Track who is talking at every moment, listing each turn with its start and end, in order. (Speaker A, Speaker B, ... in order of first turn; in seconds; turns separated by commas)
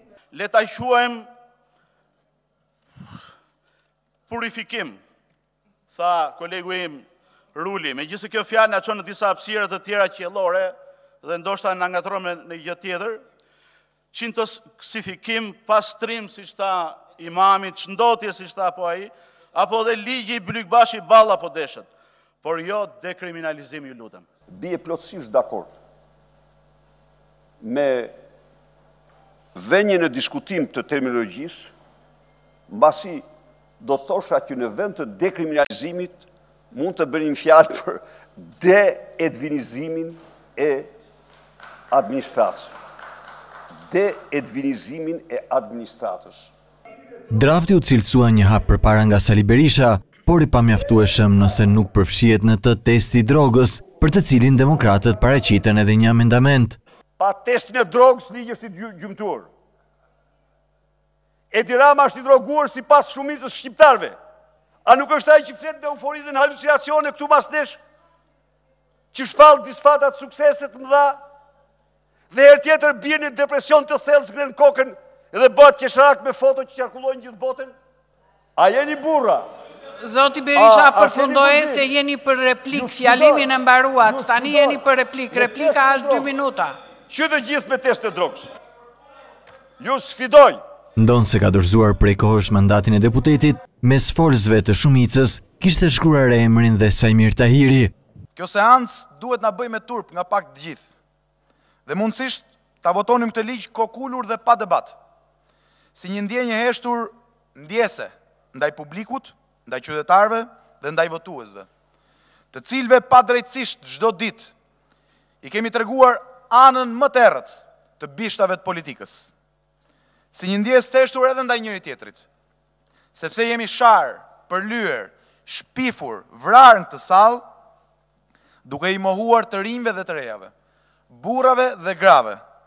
Speaker A: 0.3-1.3, Speaker A: 4.3-5.0, Speaker A: 5.9-13.2, Speaker A: 14.1-21.9, Speaker A: 22.4-24.2, Speaker B: 24.5-25.7, Speaker B: 27.6-28.1, Speaker B: 29.5-31.7, Speaker B: 32.7-33.2, Speaker B: 33.8-40.9, Speaker B: 41.9-42.7, Speaker B: 43.9-46.5, Speaker C: 47.3-56.8, Speaker B: 57.2-59.5, Speaker B: 61.5-64.2, Speaker B: 64.8-67.8, Speaker B: 69.1-71.2, Speaker B: 72.3-77.7, Speaker B: 78.6-79.4, Speaker D: 80.0-86.8, Speaker B: 80.5-81.8, Speaker B: 82.7-86.4, Speaker B: 87.1-88.5, Speaker B: 89.8-90.6, Speaker C: 91.0-97.9, Speaker E: 98.3-100.8, Speaker E: 101.8-105.0, Speaker E: 105.9-111.7, Speaker E: 112.5-114.5, Speaker E: 115.4-119.3, Speaker E: 120.3-122.2, Speaker E: 123.1-127.4, Speaker E: 128.6-130.5, Speaker E: 131.1-132.4